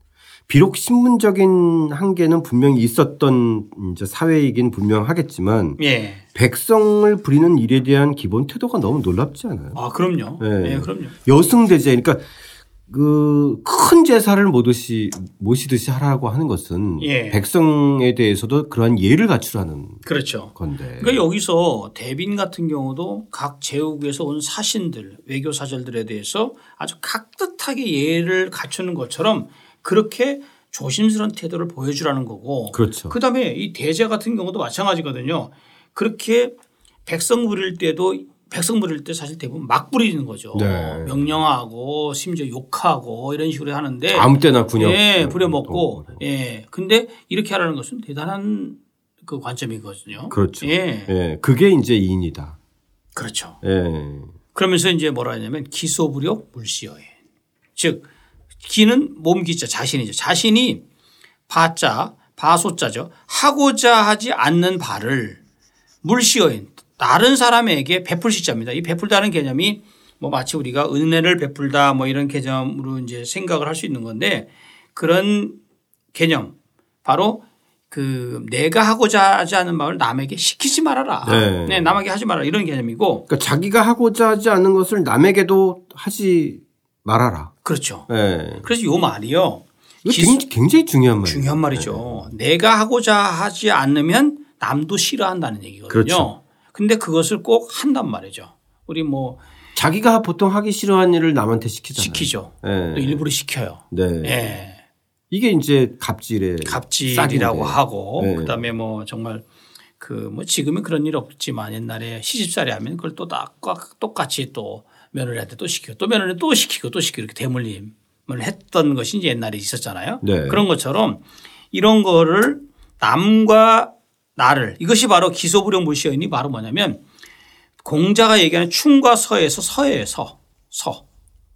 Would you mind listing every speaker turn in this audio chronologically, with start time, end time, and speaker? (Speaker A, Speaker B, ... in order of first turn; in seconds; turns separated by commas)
Speaker A: 0.5-5.8, Speaker B: 5.8-6.2, Speaker A: 6.3-9.8, Speaker B: 9.8-11.2, Speaker A: 10.4-12.2, Speaker A: 12.9-20.0, Speaker B: 17.0-17.4, Speaker B: 20.1-36.5, Speaker A: 20.5-21.2, Speaker A: 32.7-33.2, Speaker B: 37.1-51.1, Speaker A: 40.5-41.4, Speaker A: 44.1-46.2, Speaker A: 50.3-52.6, Speaker B: 53.1-53.6, Speaker A: 53.6-54.4, Speaker B: 54.5-57.1, Speaker B: 57.8-58.0, Speaker B: 58.6-60.8, Speaker B: 61.5-65.4, Speaker B: 66.0-75.6, Speaker B: 76.1-76.5, Speaker B: 77.0-83.3, Speaker A: 81.2-82.0, Speaker A: 83.3-87.5, Speaker B: 87.7-88.1, Speaker A: 88.1-88.7, Speaker B: 88.6-90.4, Speaker A: 90.0-92.3, Speaker B: 91.2-99.4, Speaker A: 95.9-96.3, Speaker A: 99.8-103.2, Speaker B: 102.0-104.8, Speaker A: 103.9-104.6, Speaker A: 105.3-108.6, Speaker B: 106.6-109.5, Speaker B: 110.0-127.0, Speaker A: 120.2-120.7, Speaker B: 127.8-131.0